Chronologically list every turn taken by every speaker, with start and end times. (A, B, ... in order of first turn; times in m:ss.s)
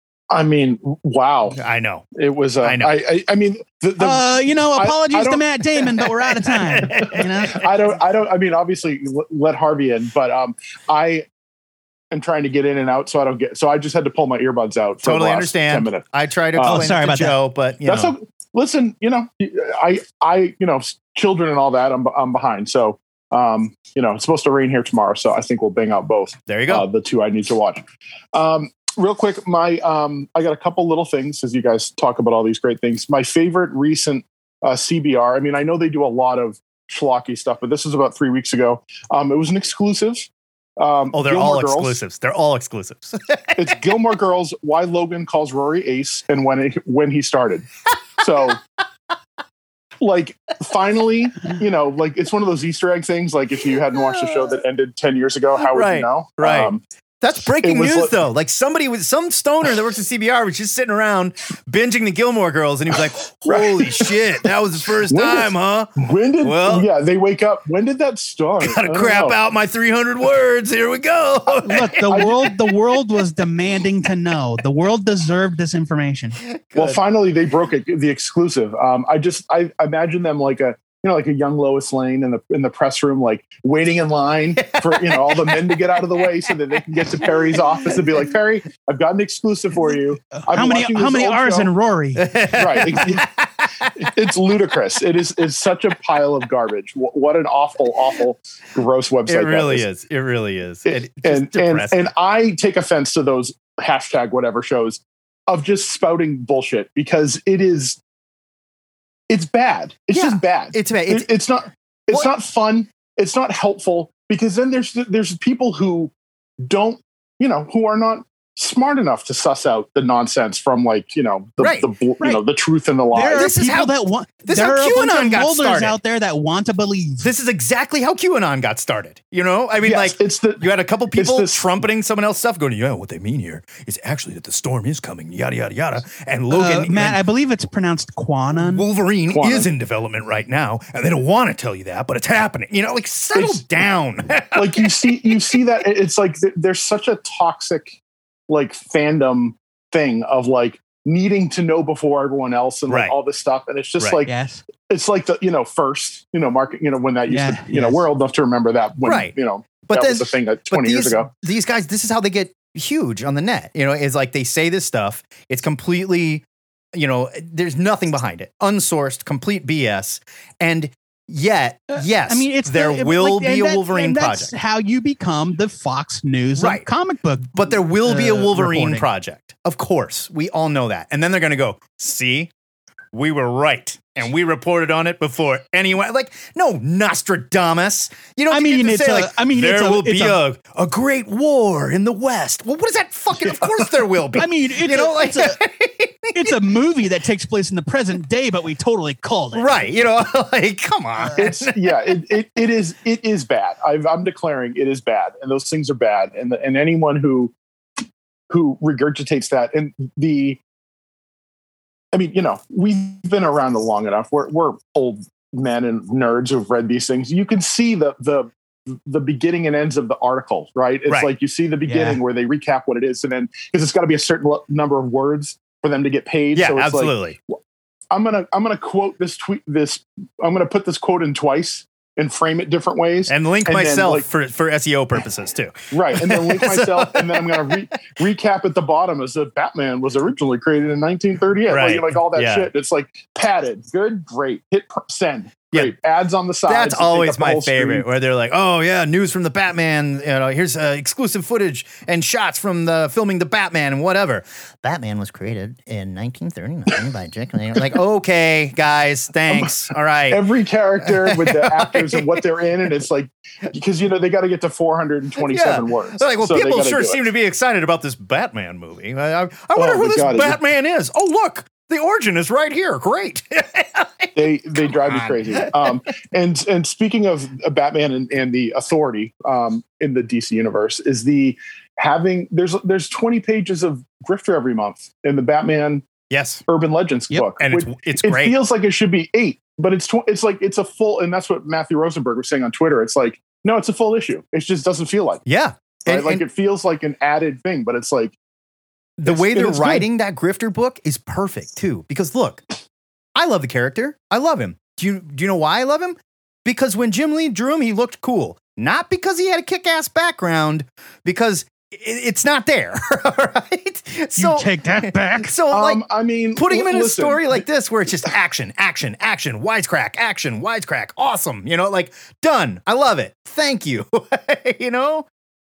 0:00.3-0:01.6 A
0:01.6-0:02.1 B
0:02.1-0:05.4 A
0:02.6-0:02.9 B
0:04.0-0:07.7 C
0:06.3-0:07.6 B
0:07.5-0:11.2 A
0:12.1-0:16.9 A
0:15.0-0:18.1 B
0:16.6-0:17.4 C
0:17.8-0:40.3 A
0:26.5-0:26.9 B
0:40.8-0:42.0 A
0:41.1-0:43.9 B
0:43.6-0:47.6 A
0:48.2-0:48.6 A
0:50.0-0:56.8 A
0:53.9-0:54.6 B
0:55.6-1:06.9 B
0:57.6-0:58.1 A
1:03.4-1:04.2 A
1:05.1-1:09.4 A
1:08.6-1:12.6 B
1:11.6-1:16.4 C
1:12.1-1:12.5 A
1:16.4-1:17.0 B
1:16.8-1:31.7 A
1:24.6-1:26.2 B
1:27.1-1:27.6 B
1:30.3-1:32.3 C
1:32.2-1:34.1 B
1:32.5-1:33.2 A
1:34.0-1:39.9 A
1:39.3-1:42.1 B
1:40.9-1:48.0 A
1:49.3-1:56.1 A
1:50.1-1:51.3 B
1:56.6-2:03.5 A
2:01.6-2:01.9 B
2:03.1-2:07.3 C
2:03.3-2:06.0 B
2:07.2-2:17.2 B
2:09.8-2:11.6 A
2:16.5-2:18.8 C
2:18.6-2:25.6 B
2:19.3-2:19.7 A
2:23.4-2:23.6 A
2:24.5-2:28.0 A
2:28.5-2:34.3 A
2:32.9-2:33.1 B
2:34.2-2:34.6 C
2:34.9-2:41.3 A
2:37.3-2:38.0 C
2:39.0-2:54.5 B
2:51.9-2:59.0 C
2:56.6-2:56.9 B
2:57.5-3:02.5 B
3:03.1-3:16.6 B
3:08.5-3:10.4 C
3:14.4-3:15.6 C
3:16.4-3:19.8 C
3:19.6-3:21.9 B
3:21.4-3:27.5 A
3:28.5-3:30.6 A
3:32.1-3:47.2 A
3:41.8-3:42.2 C
3:46.5-3:47.4 B
3:48.1-3:54.2 A
3:53.3-3:57.7 B
3:55.9-4:08.0 A
4:01.7-4:02.7 B
4:06.6-4:20.4 B
4:19.5-4:19.7 A
4:20.3-4:27.2 A
4:21.0-4:22.4 B
4:25.4-4:35.9 B
4:29.8-4:30.6 A
4:34.4-4:46.1 A
4:46.3-4:46.6 B
4:46.7-4:55.4 A
4:47.6-4:48.6 B
4:55.4-4:56.4 B
4:56.1-4:58.4 A
4:59.2-5:02.6 B
4:59.2-5:00.1 A
5:03.4-5:16.0 B
5:14.4-5:15.5 C
5:15.7-5:17.6 A
5:16.6-5:25.2 B